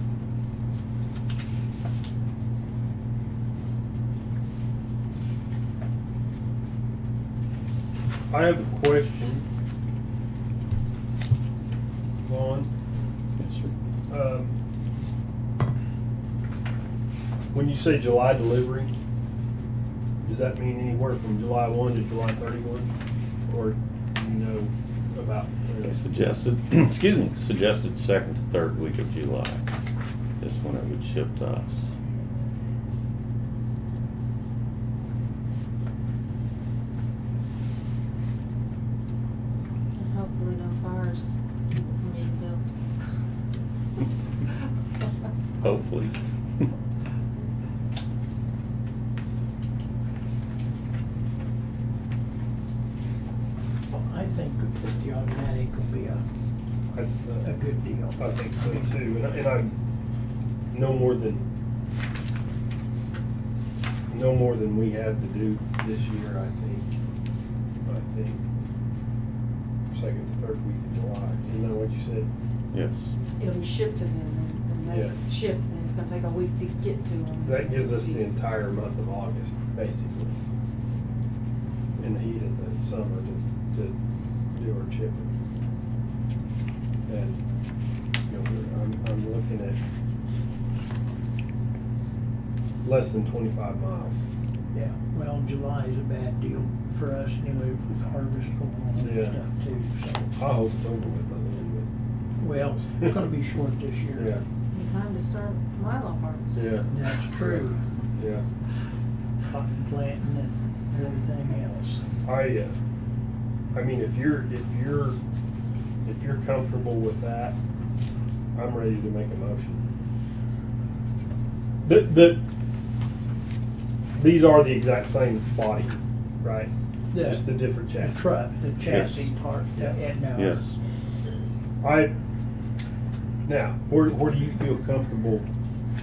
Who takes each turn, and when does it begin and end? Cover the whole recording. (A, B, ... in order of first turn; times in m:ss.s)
0:08.3-0:09.4 A
0:12.2-0:12.7 A
0:13.4-0:13.7 B
0:14.1-0:14.5 A
0:17.5-0:18.9 A
0:20.2-0:22.9 A
0:23.5-0:26.0 A
0:25.8-0:29.7 B
0:30.4-0:31.9 B
0:39.9-0:42.8 C
0:45.6-0:46.7 B
0:53.9-0:56.2 D
0:56.9-0:59.8 A
0:57.4-0:58.9 D
1:00.7-1:01.4 A
1:04.1-1:07.0 A
1:07.8-1:08.4 A
1:09.9-1:12.3 A
1:12.7-1:13.1 B
1:13.4-1:18.3 C
1:14.9-1:15.2 A
1:17.4-1:20.4 A
1:22.0-1:24.0 A
1:24.5-1:25.3 A
1:27.1-1:27.4 A
1:28.3-1:29.8 A
1:32.8-1:34.2 A
1:34.7-1:40.3 D
1:39.0-1:39.4 A
1:40.3-1:41.9 A
1:42.4-1:44.4 D
1:44.2-1:44.4 A
1:44.7-1:46.6 C
1:46.5-1:48.4 A
1:46.9-1:47.8 D
1:49.5-1:52.1 D
1:52.2-1:52.7 A
1:53.7-1:55.2 A
1:56.0-1:57.6 A
1:58.5-1:59.8 A
2:01.8-2:02.4 A
2:04.2-2:08.3 A
2:07.1-2:10.6 D
2:08.8-2:09.3 B
2:10.3-2:10.8 B
2:11.8-2:12.1 A
2:13.5-2:15.5 A